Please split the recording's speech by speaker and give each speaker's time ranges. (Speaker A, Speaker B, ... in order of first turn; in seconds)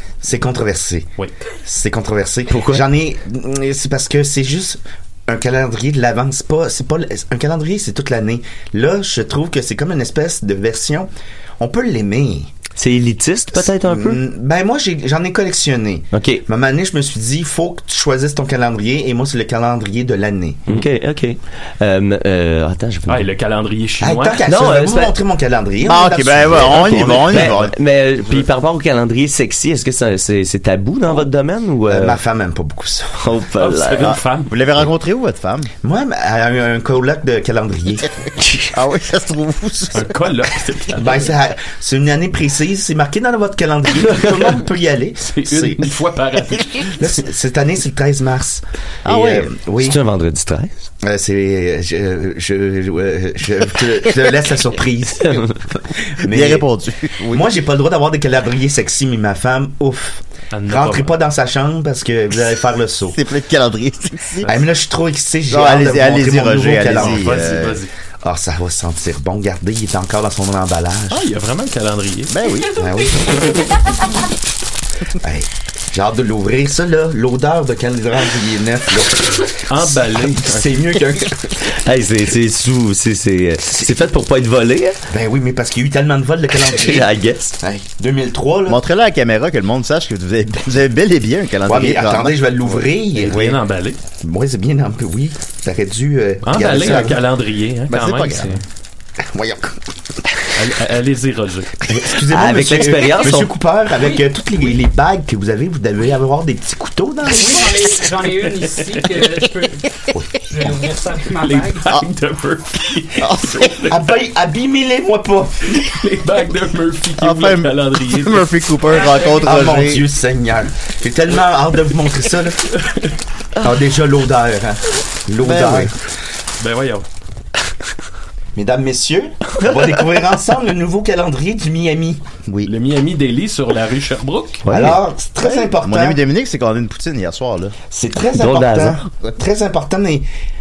Speaker A: 0.2-1.1, 1.6-12.5, 13.5-20.8, 24.0-27.6, 31.9-33.2, 35.8-38.1, 40.9-46.0, 47.0-50.0, 51.0-56.7, 57.3-63.2, 64.4-67.7, 68.2-71.3, 72.7-73.7, 75.2-81.6, 85.1-87.1, 87.6-88.8, 91.7-93.5, 94.2-97.2, 99.2-99.8, 101.8-107.9, 113.8-115.8, 119.4-122.7, 123.6-126.0, 128.6-132.2, 134.7-136.2, 137.9-140.3
Speaker B: 2.5-2.8, 12.8-14.2, 16.1-16.4, 20.7-23.3, 24.4-25.1, 26.6-32.2, 33.2-34.2, 49.8-50.7, 81.7-85.0, 86.6-87.6, 102.3-103.5, 134.7-135.0, 138.3-139.1
Speaker C: 23.1-24.4, 33.6-34.6, 39.9-41.3, 45.2-47.0, 60.5-61.2, 66.9-67.9, 71.1-72.3, 79.7-80.8, 93.2-94.0, 96.4-98.6, 100.5-101.8, 108.7-109.2, 111.3-114.0, 115.7-119.5, 122.7-123.1, 126.6-127.0, 132.6-134.7
Speaker D: 25.9-27.7, 34.1-35.7, 38.7-40.2, 49.0-49.5, 56.2-57.5, 63.1-64.5, 65.5-67.8, 72.3-72.8, 88.7-93.6, 97.9-98.5, 113.2-113.8, 117.2-120.1, 125.4-125.9, 135.4-137.8
Speaker E: 107.3-109.9, 110.5-111.9